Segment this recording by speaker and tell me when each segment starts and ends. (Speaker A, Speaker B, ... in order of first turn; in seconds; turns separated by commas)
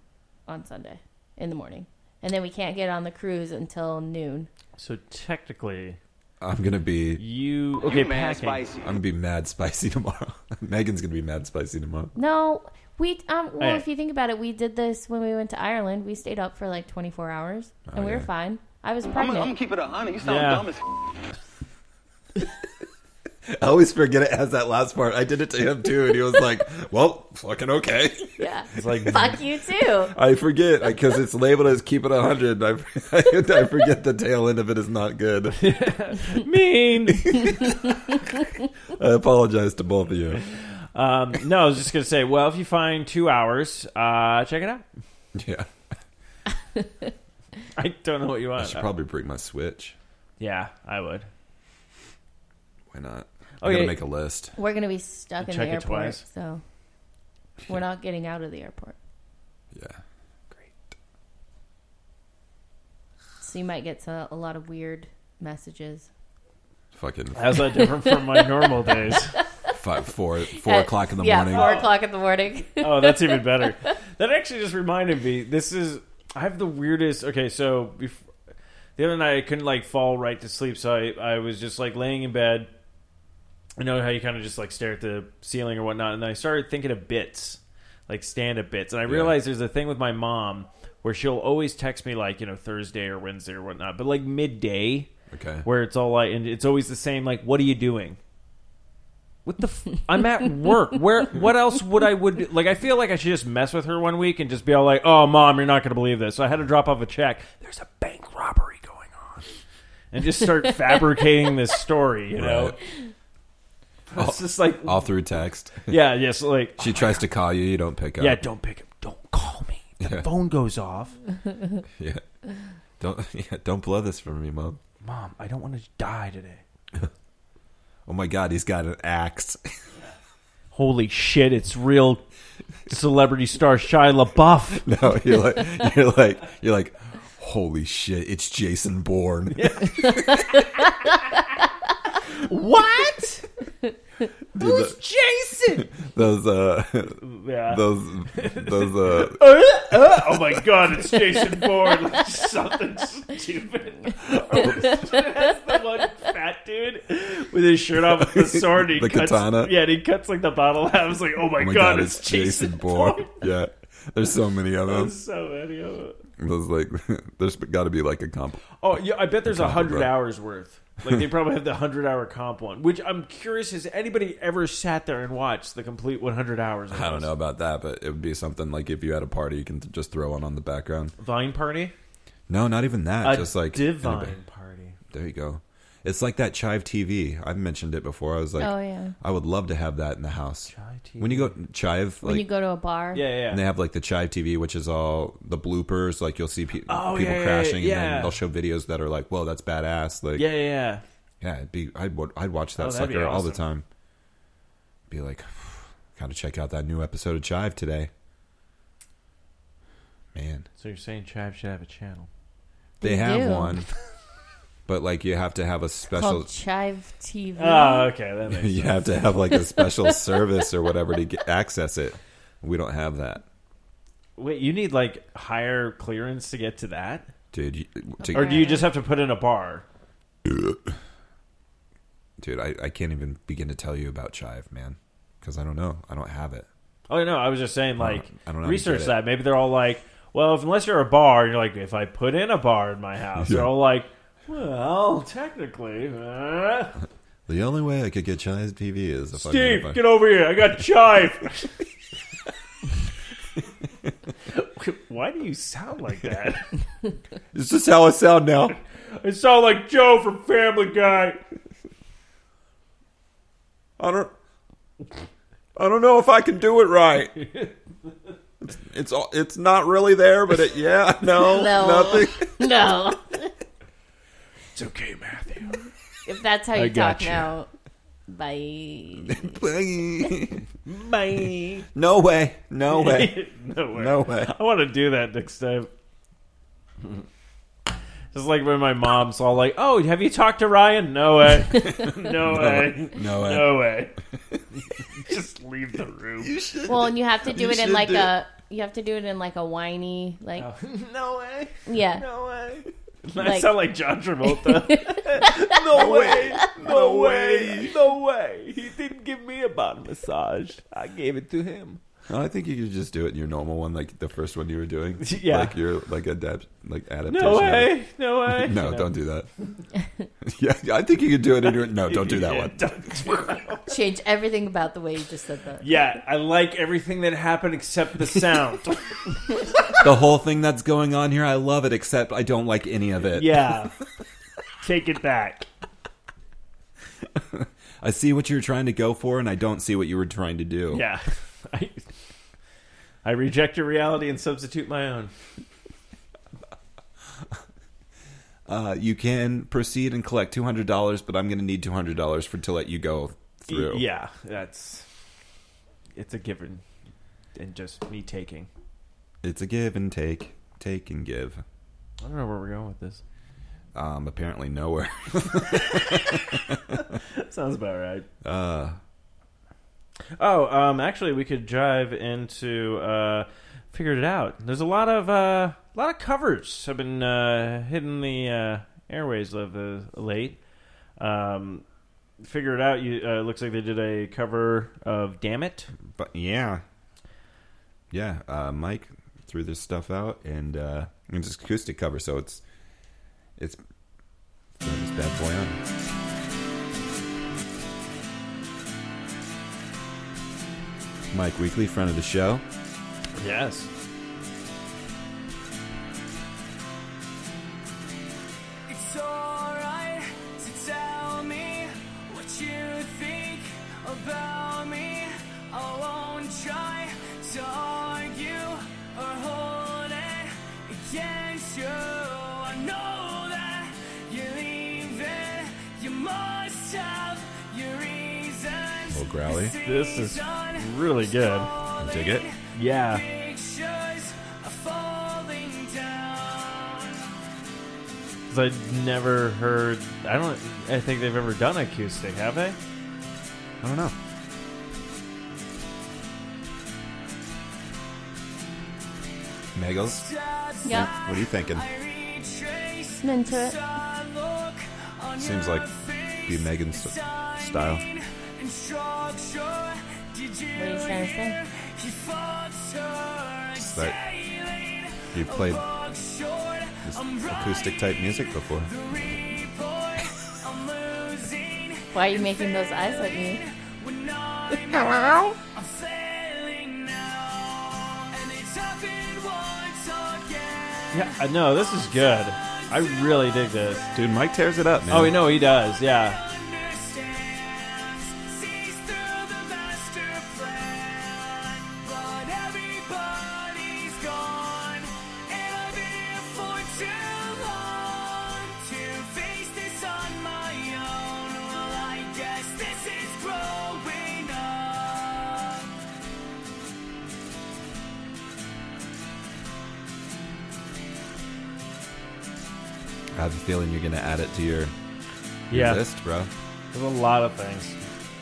Speaker A: 0.5-4.5, Speaker B: 4.8-6.0, Speaker C: 6.4-7.2, Speaker B: 7.2-8.7, Speaker D: 7.8-8.9, Speaker C: 8.8-12.1, Speaker A: 12.2-19.5, Speaker B: 13.6-13.9, Speaker C: 17.9-18.3, Speaker D: 19.1-20.8, Speaker B: 20.2-20.7, Speaker C: 23.5-29.3, Speaker A: 28.2-30.1, Speaker B: 28.8-29.4, Speaker C: 30.1-35.6, Speaker B: 35.5-37.5, Speaker C: 37.2-38.0, Speaker C: 38.9-40.4, Speaker B: 40.5-44.9, Speaker C: 45.4-45.7, Speaker A: 46.8-47.1, Speaker B: 47.8-48.9, Speaker C: 48.6-50.0, Speaker B: 50.4-51.3, Speaker C: 52.9-54.5, Speaker B: 53.6-54.0, Speaker A: 54.5-56.6, Speaker B: 55.4-56.2, Speaker A: 57.7-59.0, Speaker C: 59.7-60.0, Speaker A: 63.4-66.1, Speaker C: 66.9-67.9, Speaker B: 67.3-69.4, Speaker A: 68.0-68.6, Speaker A: 69.3-69.7, Speaker C: 69.7-71.8, Speaker A: 70.5-73.7, Speaker B: 71.5-71.9, Speaker B: 72.8-78.3, Speaker B: 79.0-82.7, Speaker B: 83.8-95.1, Speaker C: 89.1-89.4, Speaker C: 95.3-95.7, Speaker B: 95.7-98.2, Speaker B: 99.5-109.5, Speaker B: 110.1-112.8, Speaker C: 112.3-112.8, Speaker B: 114.1-115.1, Speaker C: 114.2-116.0, Speaker B: 115.9-117.2, Speaker C: 116.8-118.4, Speaker B: 118.2-121.2, Speaker C: 120.0-120.3, Speaker C: 122.0-122.2, Speaker C: 123.0-124.8, Speaker B: 125.0-126.6, Speaker C: 128.1-129.6, Speaker B: 130.7-132.2, Speaker B: 132.9-134.9, Speaker C: 134.8-140.4, Speaker B: 139.5-140.6, Speaker A: 140.1-140.8, Speaker B: 142.3-143.5, Speaker C: 144.6-145.0, Speaker B: 144.6-145.9, Speaker C: 145.8-150.6, Speaker B: 147.2-163.4, Speaker C: 158.1-159.8, Speaker C: 161.6-165.2, Speaker B: 164.9-166.2, Speaker C: 166.4-168.6, Speaker B: 168.8-177.3, Speaker C: 169.4-170.2, Speaker C: 176.9-181.2, Speaker B: 181.2-181.9, Speaker C: 182.5-184.4, Speaker B: 183.2-185.0, Speaker C: 185.1-192.5, Speaker A: 188.6-189.2, Speaker B: 190.7-191.6, Speaker A: 192.2-193.3, Speaker B: 193.1-193.6, Speaker C: 193.5-200.5, Speaker B: 196.9-198.4, Speaker B: 200.3-201.0, Speaker C: 201.4-203.8, Speaker B: 202.8-203.7, Speaker C: 205.1-208.1, Speaker C: 210.3-210.7, Speaker B: 210.8-212.3, Speaker A: 213.0-213.8, Speaker C: 213.0-213.9, Speaker C: 214.9-216.5, Speaker A: 216.1-218.2, Speaker B: 217.6-219.2, Speaker C: 218.5-223.4, Speaker A: 219.6-220.4, Speaker B: 224.4-227.3, Speaker C: 227.5-228.8, Speaker A: 228.2-228.9, Speaker B: 228.3-229.8, Speaker C: 230.5-230.8, Speaker C: 232.4-236.7, Speaker B: 237.1-247.0, Speaker C: 238.0-239.2, Speaker C: 243.4-243.8, Speaker C: 247.5-250.1, Speaker B: 249.3-251.7, Speaker B: 254.5-256.7, Speaker C: 257.5-258.8, Speaker B: 259.1-261.4, Speaker C: 264.0-264.3, Speaker C: 265.8-267.4, Speaker B: 267.4-267.7, Speaker C: 268.6-272.7, Speaker A: 271.4-273.5, Speaker B: 274.8-275.9, Speaker A: 276.3-277.7, Speaker B: 276.7-277.5, Speaker A: 278.3-279.6, Speaker C: 279.2-280.6, Speaker B: 280.9-281.9, Speaker C: 281.9-284.5, Speaker B: 282.9-285.9, Speaker B: 288.3-294.1, Speaker A: 291.7-292.1, Speaker C: 292.1-294.6, Speaker B: 295.2-296.5, Speaker C: 296.4-298.4, Speaker A: 296.9-300.7, Speaker B: 300.6-312.0, Speaker A: 301.9-302.3, Speaker A: 303.4-303.8, Speaker A: 304.5-305.8, Speaker C: 305.9-307.9, Speaker C: 312.3-319.5, Speaker B: 315.2-315.8, Speaker B: 317.3-319.1, Speaker C: 320.4-323.3, Speaker B: 321.6-323.9, Speaker A: 323.9-325.9, Speaker B: 325.8-329.4, Speaker C: 330.0-333.8, Speaker B: 333.3-333.9, Speaker B: 334.8-335.7, Speaker C: 337.4-341.1, Speaker B: 340.9-342.1, Speaker B: 343.2-345.3, Speaker C: 348.7-354.1, Speaker B: 353.7-355.1, Speaker B: 356.1-356.8, Speaker B: 357.6-358.7, Speaker C: 359.4-361.6, Speaker B: 362.2-363.2, Speaker C: 363.9-366.8, Speaker B: 365.9-366.4, Speaker B: 366.9-368.3, Speaker C: 368.4-369.0, Speaker B: 370.4-380.6, Speaker B: 381.2-381.8, Speaker B: 382.4-385.9, Speaker C: 386.0-386.8, Speaker C: 388.1-392.6, Speaker C: 394.8-395.8, Speaker C: 401.3-402.6, Speaker B: 403.4-403.9, Speaker E: 408.9-437.3, Speaker C: 429.1-429.8, Speaker B: 429.8-431.7, Speaker C: 432.0-432.4, Speaker B: 432.7-433.2, Speaker B: 438.5-442.8, Speaker C: 443.8-444.1, Speaker C: 449.8-450.3, Speaker E: 450.2-468.2, Speaker A: 450.9-451.1, Speaker C: 450.9-451.9, Speaker A: 453.2-453.8, Speaker C: 455.4-455.9, Speaker C: 456.5-458.1, Speaker A: 460.8-461.6, Speaker C: 463.8-464.2, Speaker C: 465.3-465.9, Speaker C: 467.1-468.9, Speaker E: 468.8-483.9, Speaker A: 472.1-473.6, Speaker C: 474.9-475.6, Speaker B: 481.1-484.1, Speaker C: 484.1-485.4, Speaker B: 485.1-486.4, Speaker E: 485.5-505.9, Speaker C: 513.4-514.9, Speaker B: 515.7-516.0, Speaker C: 515.7-516.5, Speaker B: 516.9-518.0